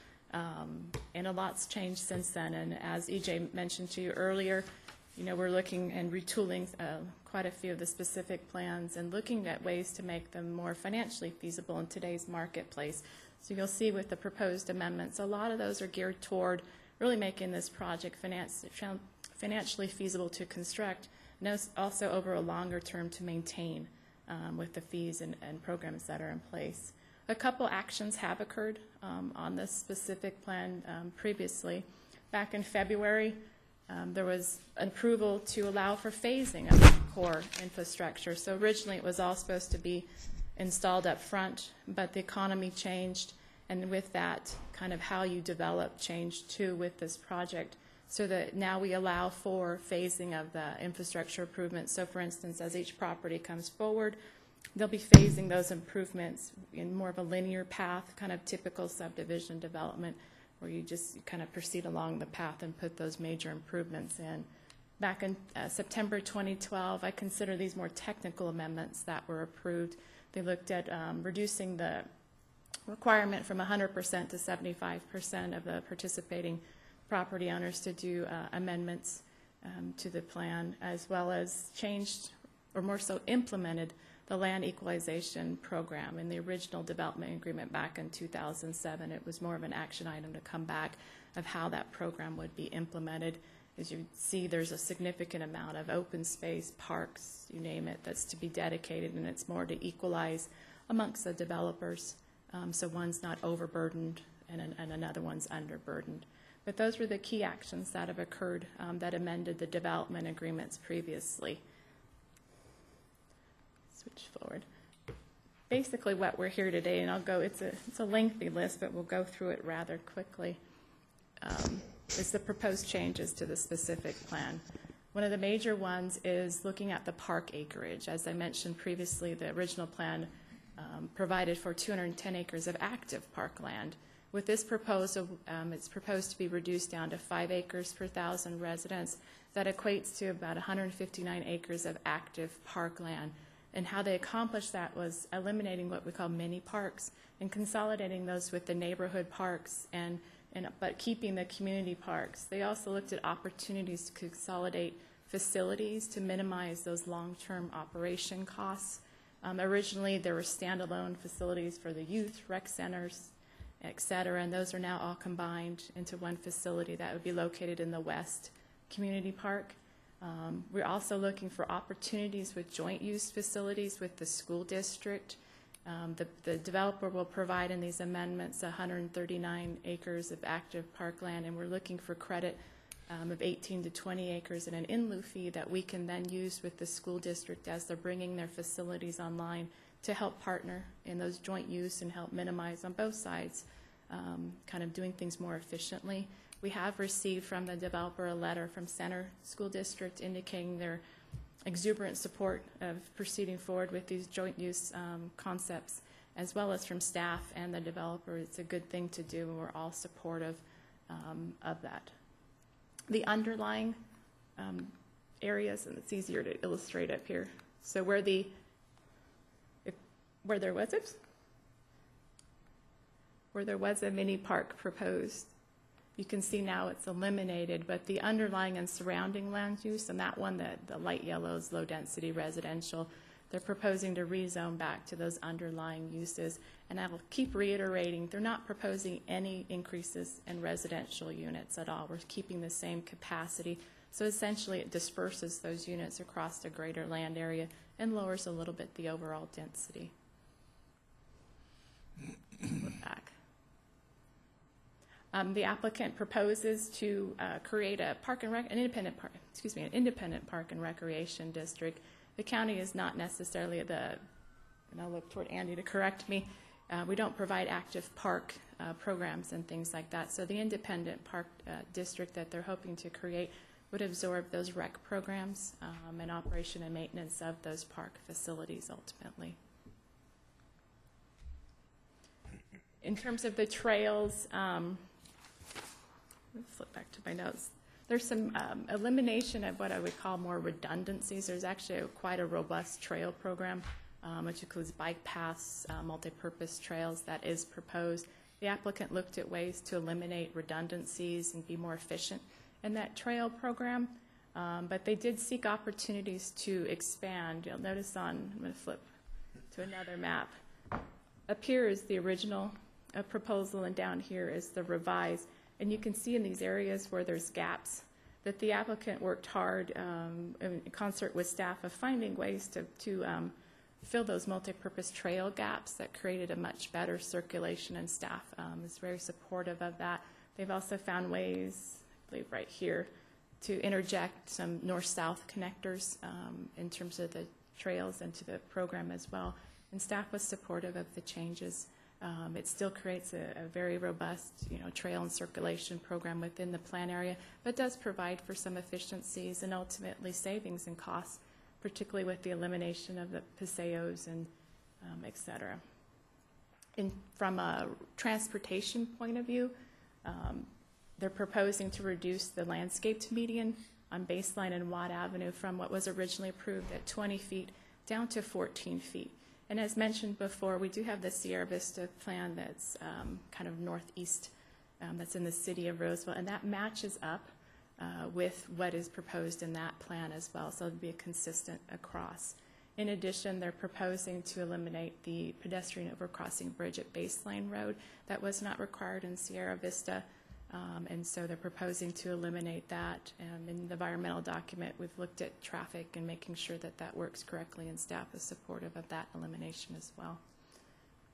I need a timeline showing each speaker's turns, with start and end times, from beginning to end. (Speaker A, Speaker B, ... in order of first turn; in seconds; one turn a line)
Speaker A: 0.3-54.2
Speaker A: 54.7-64.5
Speaker A: 65.0-72.1
Speaker A: 72.9-111.6
Speaker A: 113.9-114.6
Speaker A: 115.7-120.6
Speaker A: 121.4-182.6
Speaker A: 183.1-201.0
Speaker A: 201.7-212.1
Speaker A: 213.1-214.0
Speaker A: 214.6-218.5
Speaker A: 219.8-221.2
Speaker A: 223.5-225.5
Speaker A: 226.2-250.1
Speaker A: 252.8-253.3
Speaker A: 255.3-264.2
Speaker A: 264.9-279.6
Speaker A: 283.0-285.0
Speaker A: 286.5-309.0
Speaker A: 309.7-310.5
Speaker A: 311.5-333.1
Speaker A: 333.6-354.5
Speaker A: 355.0-355.8
Speaker A: 357.0-400.4